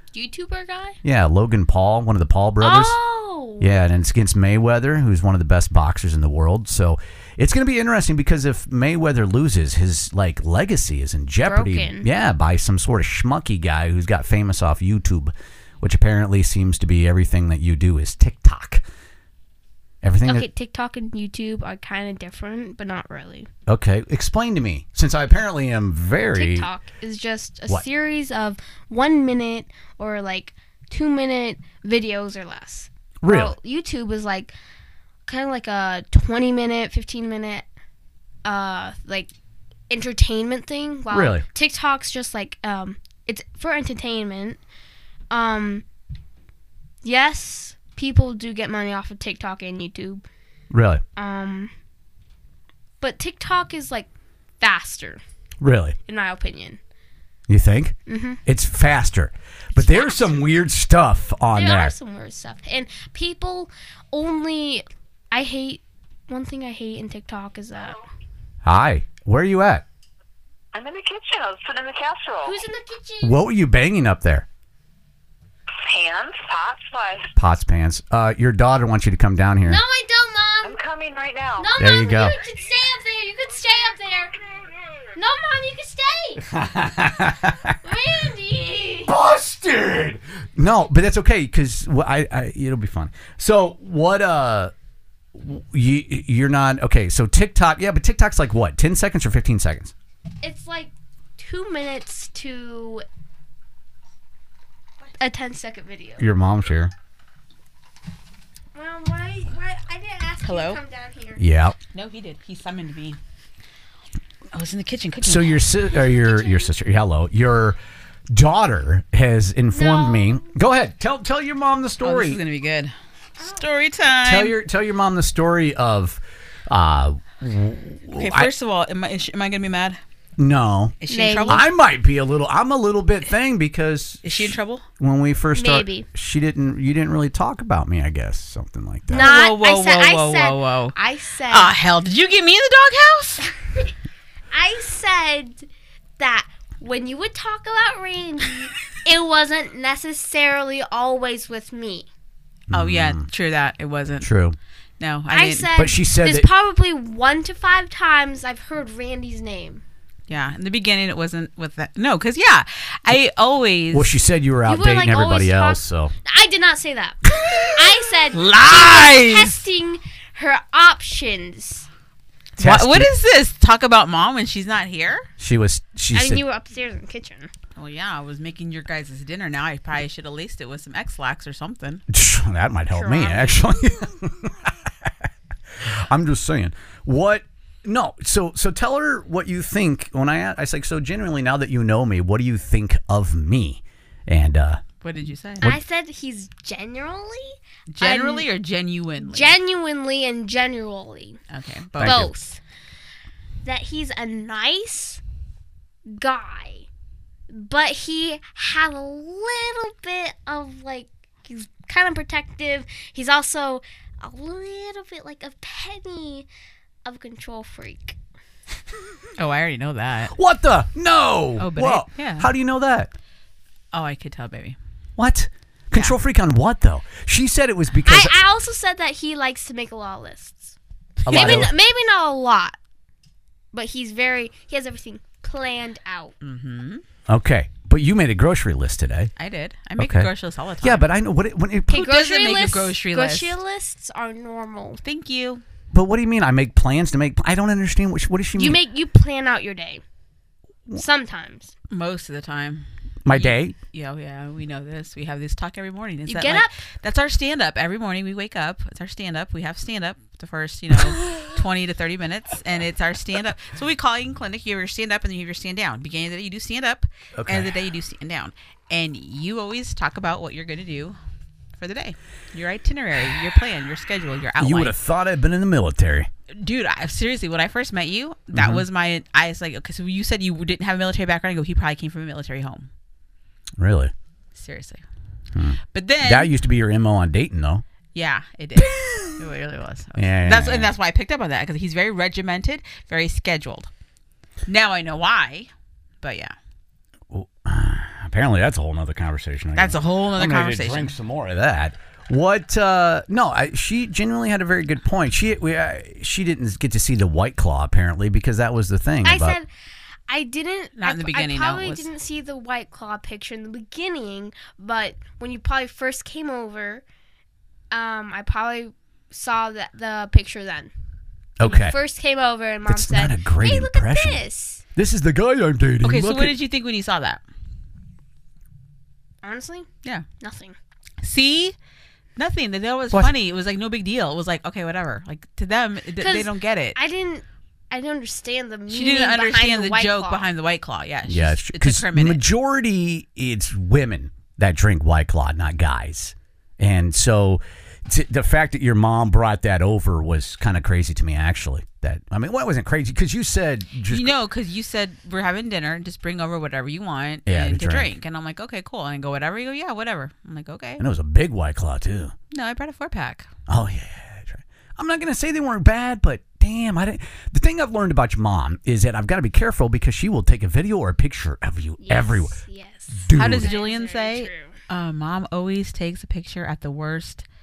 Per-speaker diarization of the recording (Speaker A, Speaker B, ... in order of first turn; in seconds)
Speaker A: 0.1-1.0, 2.6-3.8, 11.4-12.1, 20.2-23.5, 26.3-34.5, 35.3-37.7, 38.5-39.3, 39.9-44.6, 45.3-45.9, 47.0-50.2, 51.2-51.7, 53.0-55.2, 56.1-56.8, 58.1-58.4, 59.7-60.5, 61.5-68.0, 72.5-73.4, 79.7-80.8, 81.6-84.4, 85.2-86.5, 87.8-89.1, 100.4-103.0, 105.2-106.3, 108.7-111.4, 116.0-116.7, 119.7-120.5, 131.1-131.6, 135.6-136.1, 139.1-141.7, 144.5-145.7, 146.2-152.1, 155.3-159.8, 164.7-171.9, 176.1-177.5, 182.9-183.7, 195.6-198.5, 199.2-201.4, 202.0-202.6, 203.7-205.2, 206.1-206.9, 207.5-216.5, 217.1-218.2, 228.0-230.8, 231.3-232.8, 233.7-236.3, 241.9-245.0, 248.6-250.0, 250.9-251.7, 256.3-256.7, 309.2-309.7, 310.3-317.1, 317.9-320.9, 321.6-324.8, 329.4-329.9, 330.4-330.8, 336.2-340.5, 372.0-374.8
Speaker B: 1.0-3.0, 3.6-18.8, 20.0-20.5, 23.7-26.7, 33.2-33.5, 41.1-41.5, 50.7-51.0, 55.6-56.0, 57.5-61.9, 68.6-69.8, 73.2-74.5, 77.4-79.8, 81.8-82.3, 86.5-87.8, 89.1-94.7, 95.3-99.9, 106.2-106.9, 111.4-111.8, 115.2-117.8, 118.3-122.4, 124.2-128.5, 130.4-131.0, 131.5-139.4, 152.7-153.3, 154.2-154.6, 155.8-156.5, 163.9-166.1, 172.6-173.1, 175.4-176.4, 182.1-185.1, 185.8-194.8, 202.0-202.3, 220.3-223.1, 225.2-228.4, 231.3-231.7, 237.3-239.3, 240.0-240.3, 240.8-242.1, 245.9-248.8, 253.2-253.8, 267.4-267.7, 274.6-276.3, 278.5-278.9, 283.8-284.1, 285.5-287.8, 288.8-289.2, 290.2-290.9, 297.3-309.6, 321.6-322.0, 322.9-324.4, 324.9-326.6, 341.3-354.4, 357.5-358.1, 361.0-362.4, 363.7-372.6, 373.1-373.7
Speaker C: 70.7-72.6, 75.8-77.3, 80.6-81.8
Speaker D: 110.4-110.8, 111.9-113.2, 114.5-115.7, 122.0-124.6, 128.1-130.0, 131.0-131.7, 134.2-134.8, 139.1-141.0, 141.5-143.5, 152.7-154.3, 155.0-155.7, 160.3-164.1, 168.3-169.6, 172.6-175.3, 177.8-182.0, 195.0-195.7, 197.9-199.6, 201.5-202.3, 219.4-220.3, 221.6-222.5, 223.9-224.8, 231.2-231.7, 236.4-237.0, 239.4-241.1, 242.0-243.6, 245.0-245.6, 251.9-271.2, 271.8-274.9, 276.5-282.9, 284.6-285.0, 285.9-286.5, 288.1-293.9, 294.7-295.7, 296.2-296.5, 299.8-301.1, 311.0-312.1, 326.0-327.4, 331.2-331.8, 332.4-337.0, 338.9-342.4, 354.1-361.0, 362.5-363.5, 373.3-377.4